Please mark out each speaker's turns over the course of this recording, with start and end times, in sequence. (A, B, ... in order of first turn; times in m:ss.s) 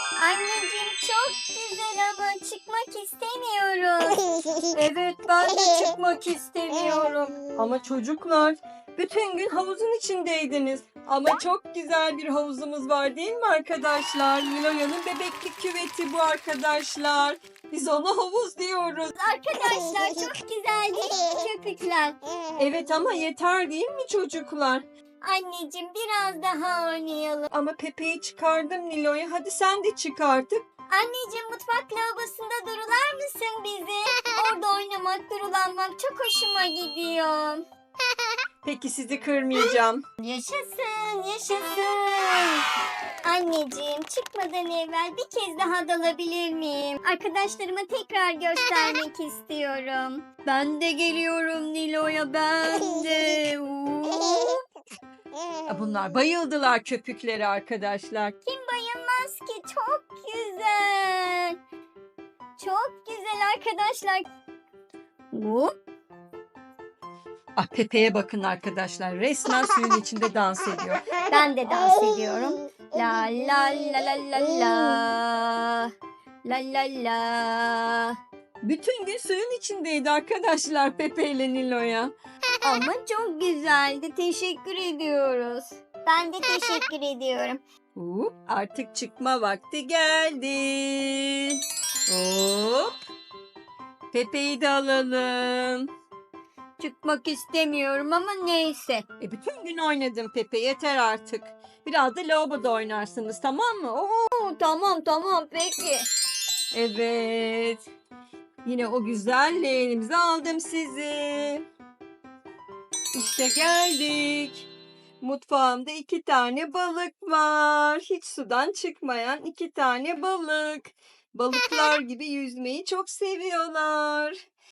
0:00.2-0:04.2 A
0:04.7-0:19.2 B
0:19.2-0:22.2 A
0:22.6-0:24.8 B
0:25.2-0:27.5 A
0:27.5-0:30.6 B
0:30.9-0:37.6 A
0:38.6-0:40.0 B
0:39.6-0:42.6 A
0:43.2-0:54.6 A
0:55.7-0:58.4 B
0:58.4-1:01.6 A
1:02.6-1:04.3 A
1:05.3-1:05.7 A
1:07.6-1:11.0 B
1:11.3-1:15.9 A
1:16.4-1:18.1 A
1:18.6-1:22.1 B
1:22.6-1:27.6 A
1:28.0-1:32.9 B
1:34.1-1:35.9 B
1:36.8-1:39.0 A
1:39.2-1:44.8 B
1:44.6-1:46.1 A
1:46.7-1:47.8 B
1:48.6-1:51.6 B
1:53.1-1:54.7 B
1:55.2-2:04.4 B